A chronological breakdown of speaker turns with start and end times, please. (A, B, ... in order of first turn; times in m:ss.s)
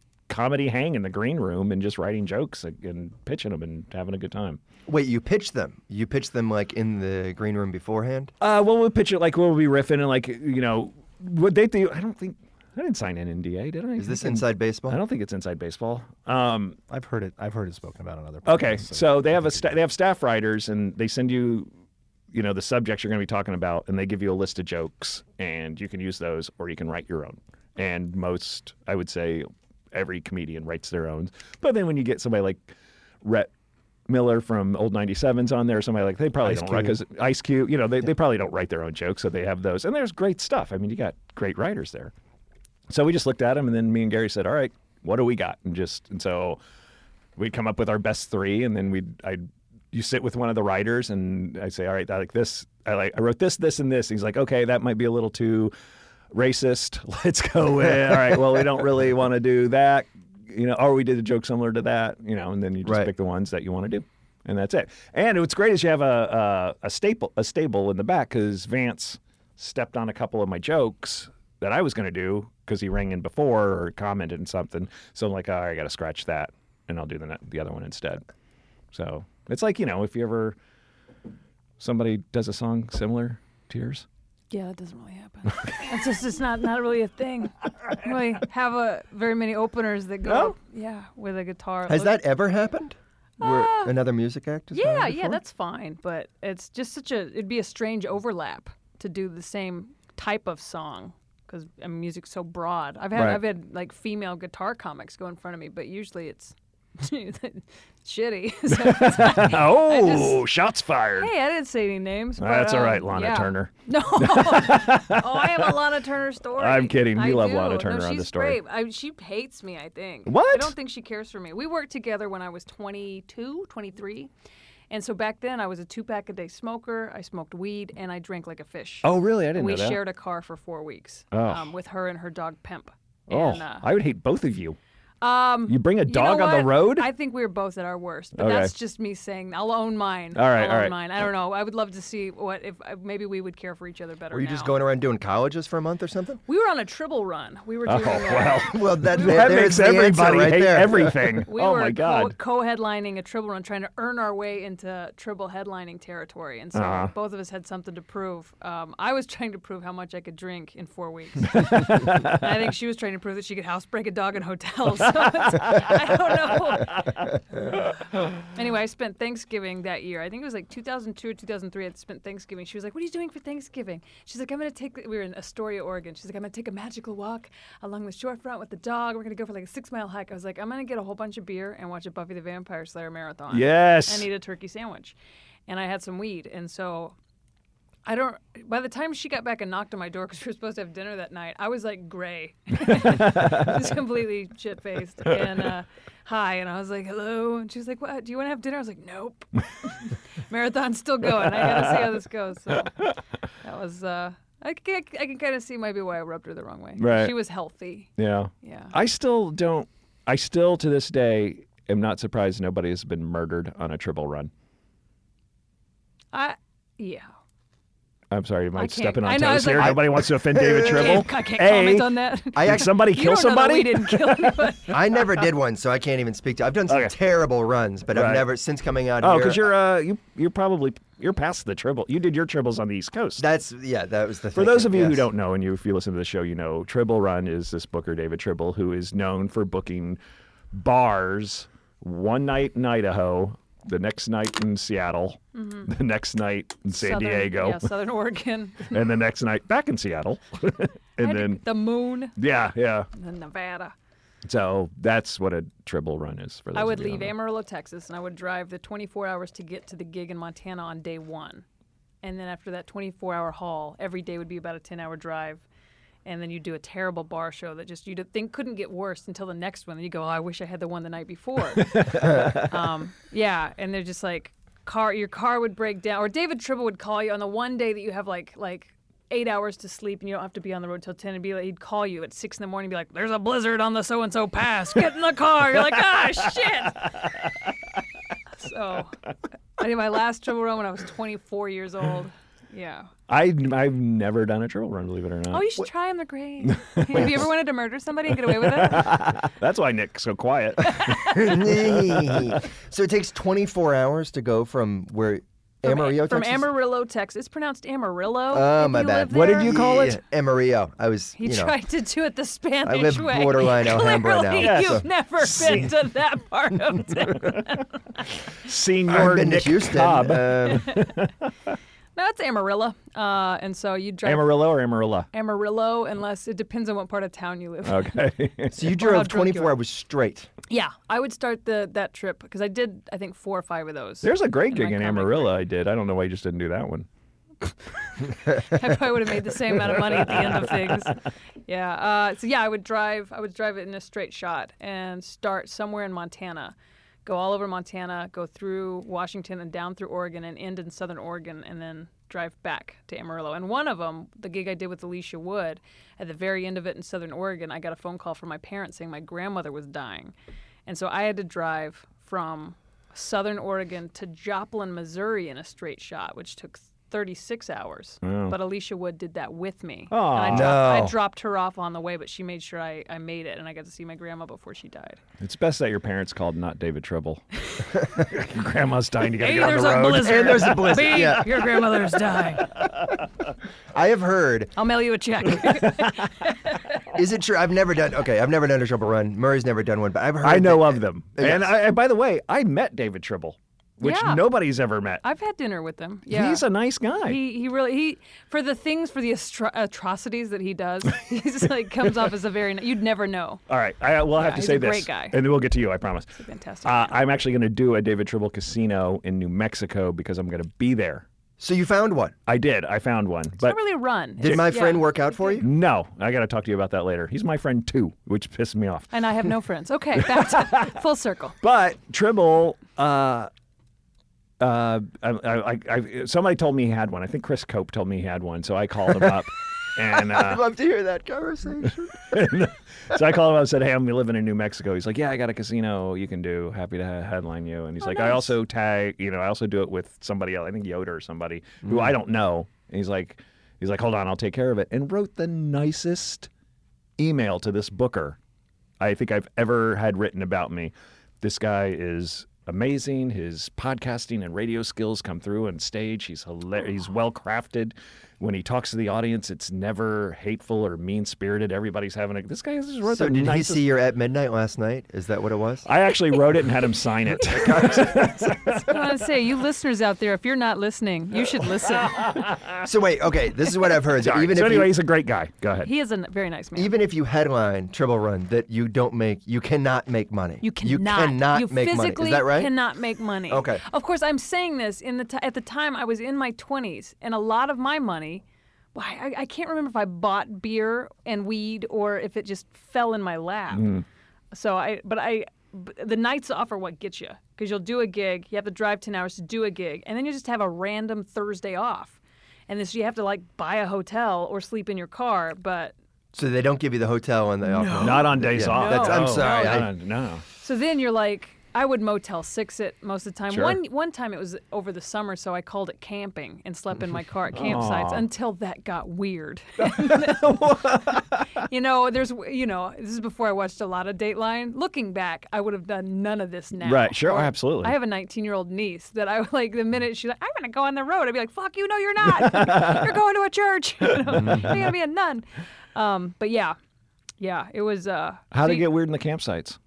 0:00.3-0:04.6 A
0:04.9-0:08.3 B
0:08.4-0:16.8 A
0:14.0-0:15.0 B
0:16.9-0:19.7 C
0:18.4-0:21.7 A
0:22.3-0:32.7 A
0:33.2-0:33.5 A
0:34.1-0:42.1 A
0:36.4-0:37.0 C
0:42.9-0:46.6 A
0:47.4-0:55.7 A
0:56.3-1:18.2 A
1:02.8-1:03.1 B
1:18.9-1:20.6 A
1:21.8-1:24.0 A
1:24.5-1:32.2 D
1:30.2-1:30.5 A
1:31.9-1:35.4 B
1:33.4-1:33.9 D
1:34.7-1:50.4 D
1:43.1-1:43.4 A
1:48.7-1:51.3 A
1:51.2-2:04.3 D
1:52.4-1:55.7 A
1:56.6-1:58.6 A
2:00.2-2:00.7 A
2:04.9-2:13.8 D
2:09.0-2:10.0 A
2:11.3-2:11.7 A
2:13.3-2:14.8 A
2:15.2-2:24.8 D
2:15.7-2:17.1 A
2:18.4-2:18.7 A
2:20.3-2:21.0 A
2:24.3-2:26.4 B
2:26.5-2:29.4 D
2:27.8-2:32.3 A
2:28.6-2:31.2 B
2:31.5-3:05.1 D
2:36.7-2:37.1 A
2:41.5-2:42.4 A
2:45.4-2:45.9 A
3:03.5-3:04.3 A
3:05.7-3:07.1 D
3:08.0-3:22.9 D
3:12.9-3:13.8 A
3:21.4-3:22.1 A
3:23.6-3:28.1 D
3:27.0-3:27.3 A
3:28.2-3:34.5 A
3:28.6-3:28.9 D
3:36.3-3:37.3 D
3:38.3-3:44.7 A
3:38.8-3:45.0 D
3:39.8-3:41.2 B
3:42.5-3:42.9 B
3:44.9-3:49.6 B
3:46.9-3:47.1 A
3:48.1-3:48.5 A
3:49.2-3:53.4 A
3:53.4-3:55.2 B
3:54.5-4:00.2 A
4:00.7-4:07.9 A
4:05.5-4:05.9 D
4:06.9-4:09.0 D
4:08.9-4:11.6 A
4:11.2-4:12.4 D
4:12.4-4:13.1 A
4:13.1-4:13.9 D
4:14.4-4:17.3 A
4:16.7-4:21.6 D
4:22.2-4:25.6 D
4:26.2-4:47.2 D
4:31.8-4:32.7 A
4:47.0-4:47.3 A
4:48.6-4:49.2 D
4:49.8-4:53.1 D
4:53.3-4:55.8 A
4:55.5-4:59.2 D
4:56.7-4:57.4 A
4:58.6-5:02.6 A
5:00.8-5:01.6 D
5:01.3-5:06.7 B
5:05.8-5:10.0 D
5:08.5-5:11.8 B
5:09.3-5:10.2 A
5:11.4-5:18.2 D
5:12.8-5:15.0 B
5:14.6-5:15.9 A
5:18.6-5:21.7 A
5:19.1-5:20.9 B
5:20.7-5:21.1 D
5:22.1-5:24.6 D
5:24.2-5:25.3 A
5:25.3-5:28.2 D
5:27.8-5:28.8 A
5:28.7-5:30.5 B
5:28.9-5:29.7 D
5:30.7-5:35.5 D
5:34.2-5:37.1 A
5:37.6-6:00.3 D
5:39.9-5:41.1 A
6:00.8-6:15.2 D
6:08.2-6:08.6 A
6:10.1-6:10.8 A
6:10.5-6:11.2 B
6:15.4-6:21.6 A
6:19.4-6:22.7 D
6:20.1-6:21.6 B
6:23.9-6:24.7 B
6:24.8-6:27.0 D
6:25.6-6:26.2 A
6:27.1-6:31.7 B
6:30.4-6:35.2 A
6:34.0-6:34.4 D
6:35.2-6:36.6 D
6:36.3-6:37.4 A
6:37.2-6:43.6 D
6:43.7-6:46.3 A
6:44.4-6:45.4 D
6:46.4-6:47.2 D
6:46.8-6:51.2 A
6:51.6-6:52.3 B
6:52.5-6:53.8 A
6:53.6-6:55.6 D
6:54.4-6:55.7 B
6:54.4-6:54.7 A
6:55.6-6:59.1 A
6:59.1-7:01.6 D
7:00.2-7:00.9 A
7:01.6-7:03.5 A
7:04.6-7:10.6 A
7:10.1-7:12.4 B
7:12.3-7:26.5 A
7:18.0-7:18.5 D
7:27.2-7:28.4 A
7:29.0-7:43.8 A
7:43.0-7:45.8 B
7:45.8-7:49.0 A
7:47.5-7:48.3 B
7:48.6-7:52.4 D
7:52.0-7:52.8 A
7:52.8-7:54.9 B
7:54.1-7:55.9 A
7:55.8-7:56.9 D
7:56.7-8:02.7 B
8:00.6-8:14.0 D
8:03.5-8:03.8 B
8:13.7-8:14.0 A
8:14.5-8:25.9 D
8:26.3-8:29.9 B
8:27.6-8:29.9 D
8:28.0-8:30.4 A
8:30.6-8:56.8 D
8:33.5-8:33.8 A
8:37.5-8:38.3 A
8:39.8-8:41.5 A
8:46.8-8:47.9 A
8:52.4-8:53.1 A
8:54.3-8:54.8 A
8:57.4-8:58.8 D
8:58.5-8:59.8 A